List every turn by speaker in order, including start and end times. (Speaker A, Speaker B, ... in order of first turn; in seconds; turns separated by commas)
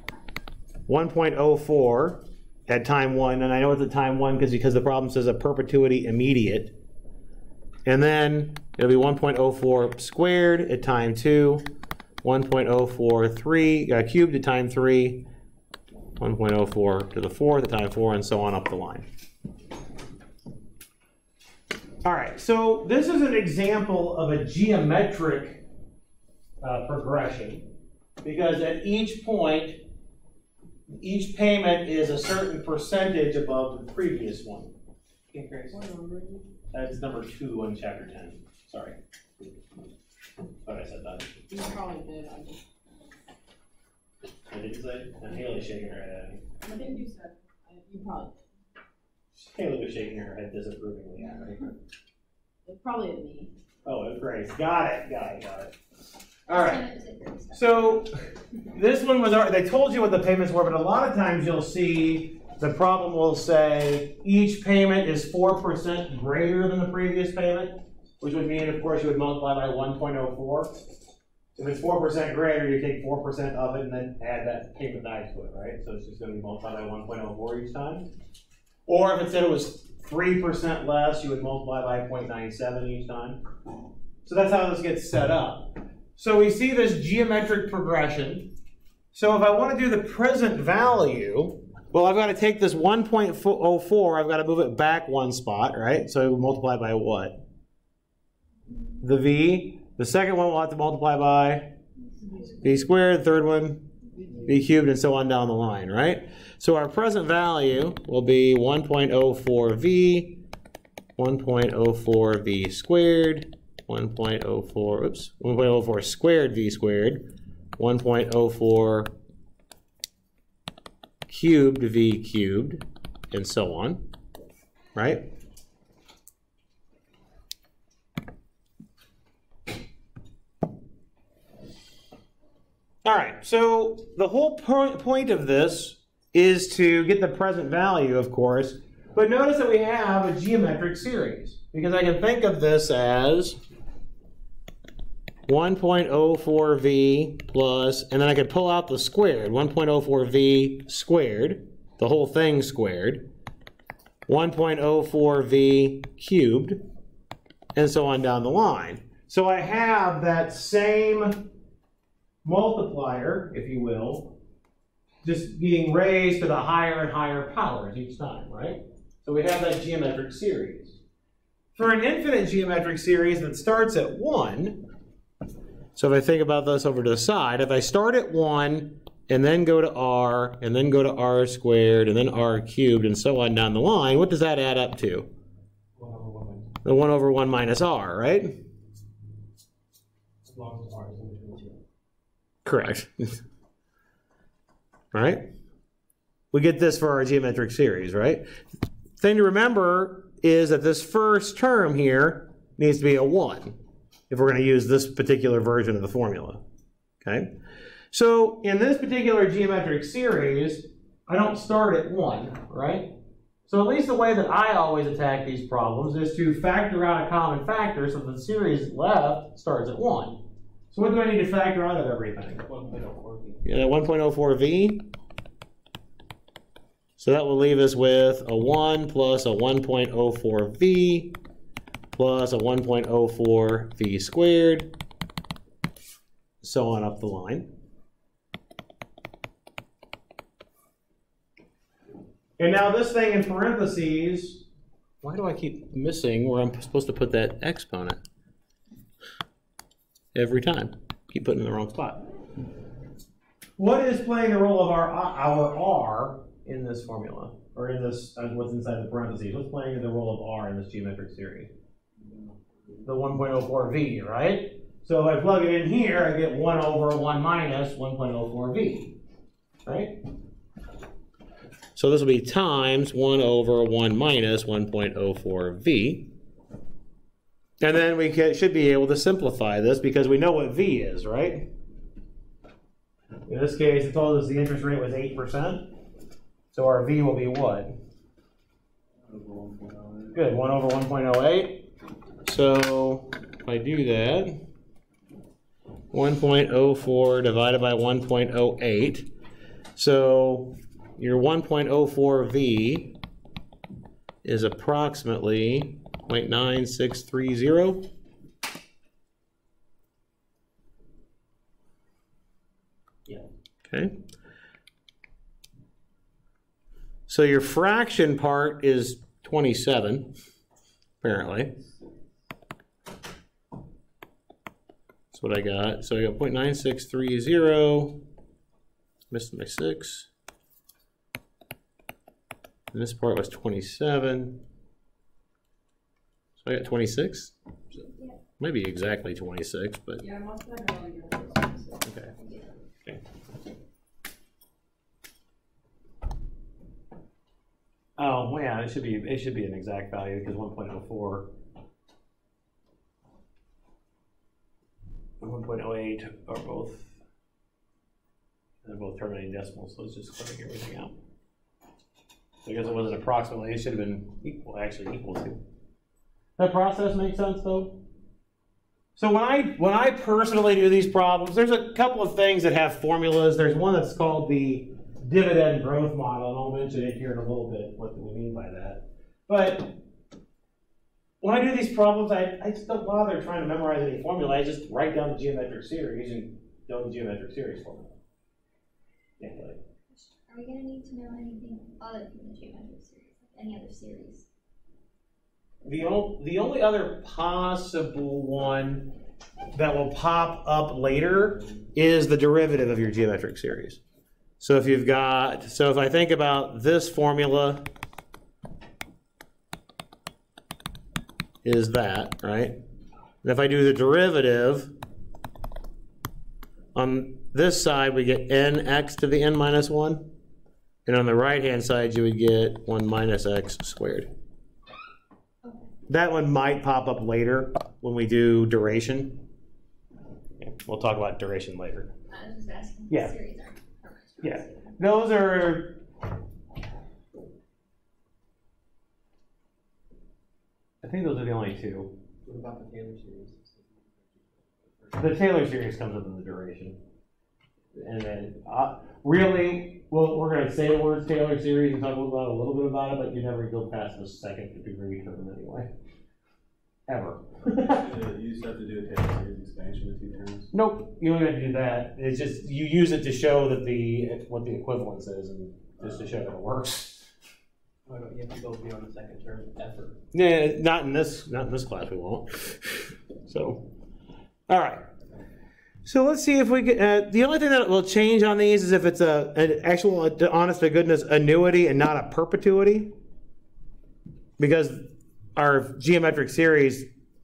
Speaker A: 0.9-6.7, Speaker A: 7.8-11.6, Speaker A: 12.2-15.2, Speaker A: 16.2-19.1, Speaker A: 22.0-25.6, Speaker A: 26.6-27.7, Speaker A: 28.2-29.8, Speaker A: 30.9-34.7, Speaker A: 35.3-35.8, Speaker B: 35.7-36.5, Speaker A: 36.7-39.0, Speaker A: 40.6-41.4, Speaker B: 41.5-42.6, Speaker A: 44.5-46.4, Speaker B: 46.6-48.4, Speaker A: 49.3-51.6, Speaker B: 52.6-53.5, Speaker A: 53.8-55.8, Speaker A: 56.5-56.8, Speaker C: 56.5-58.0, Speaker A: 57.5-58.2, Speaker A: 58.7-70.7, Speaker A: 71.6-78.1, Speaker A: 78.9-83.4, Speaker A: 84.2-88.5, Speaker A: 89.1-97.4, Speaker A: 99.0-101.7, Speaker B: 102.2-102.6, Speaker A: 102.6-103.9, Speaker B: 104.2-104.5, Speaker A: 104.5-110.4, Speaker A: 111.2-117.2, Speaker A: 117.8-119.1, Speaker A: 121.3-124.0, Speaker A: 124.9-125.2, Speaker A: 133.1-143.6, Speaker A: 145.5-153.2, Speaker A: 154.3-156.8, Speaker A: 157.8-161.4, Speaker A: 162.4-164.3, Speaker A: 165.2-171.0, Speaker A: 171.8-174.8, Speaker A: 175.9-185.3, Speaker D: 186.0-186.8, Speaker A: 186.8-188.6, Speaker D: 190.4-191.8, Speaker A: 192.6-193.4, Speaker A: 195.1-195.4, Speaker A: 196.5-198.4, Speaker A: 199.2-203.8, Speaker A: 204.3-206.6, Speaker A: 207.2-207.5, Speaker A: 208.1-213.1, Speaker A: 213.7-222.7, Speaker D: 222.6-223.6, Speaker A: 223.6-225.1, Speaker A: 227.2-231.3, Speaker A: 232.1-234.9, Speaker A: 236.6-237.7, Speaker A: 242.6-244.6, Speaker A: 245.2-248.2, Speaker A: 250.3-252.2, Speaker A: 253.8-261.7, Speaker A: 263.1-269.1, Speaker A: 269.8-270.2, Speaker A: 271.9-276.3, Speaker A: 277.8-281.7, Speaker A: 283.5-285.9, Speaker A: 286.7-287.9, Speaker E: 289.3-290.4, Speaker A: 290.3-291.9, Speaker A: 292.4-294.6, Speaker A: 296.1-299.3, Speaker A: 299.9-303.1, Speaker A: 304.4-308.1, Speaker A: 313.9-314.1, Speaker A: 317.3-320.3, Speaker A: 321.2-321.7, Speaker A: 325.3-328.2, Speaker A: 329.3-330.3, Speaker A: 332.9-334.6, Speaker A: 336.6-337.5, Speaker C: 338.1-338.4, Speaker A: 338.6-340.2, Speaker B: 340.2-342.1, Speaker A: 342.1-342.3, Speaker A: 348.2-351.5, Speaker A: 355.4-357.2, Speaker A: 358.8-361.1, Speaker A: 362.6-365.6, Speaker A: 366.6-368.0, Speaker A: 369.2-380.0, Speaker A: 381.4-388.1, Speaker A: 389.4-389.8, Speaker C: 390.1-394.4, Speaker A: 395.8-399.1, Speaker A: 399.7-404.0, Speaker A: 404.6-407.8, Speaker A: 411.6-412.8, Speaker A: 413.4-414.9, Speaker A: 416.9-420.3, Speaker A: 421.1-424.3, Speaker C: 425.6-425.9, Speaker A: 426.1-429.4, Speaker A: 430.6-432.1, Speaker C: 432.3-434.9, Speaker A: 434.4-436.0, Speaker A: 441.0-442.1, Speaker D: 442.4-445.3, Speaker A: 445.2-447.0, Speaker A: 447.9-455.9, Speaker A: 457.1-458.1, Speaker E: 457.9-460.7, Speaker A: 460.7-467.3, Speaker D: 468.1-470.2, Speaker A: 470.3-473.8, Speaker A: 474.7-475.1, Speaker A: 476.1-483.1, Speaker A: 484.6-487.1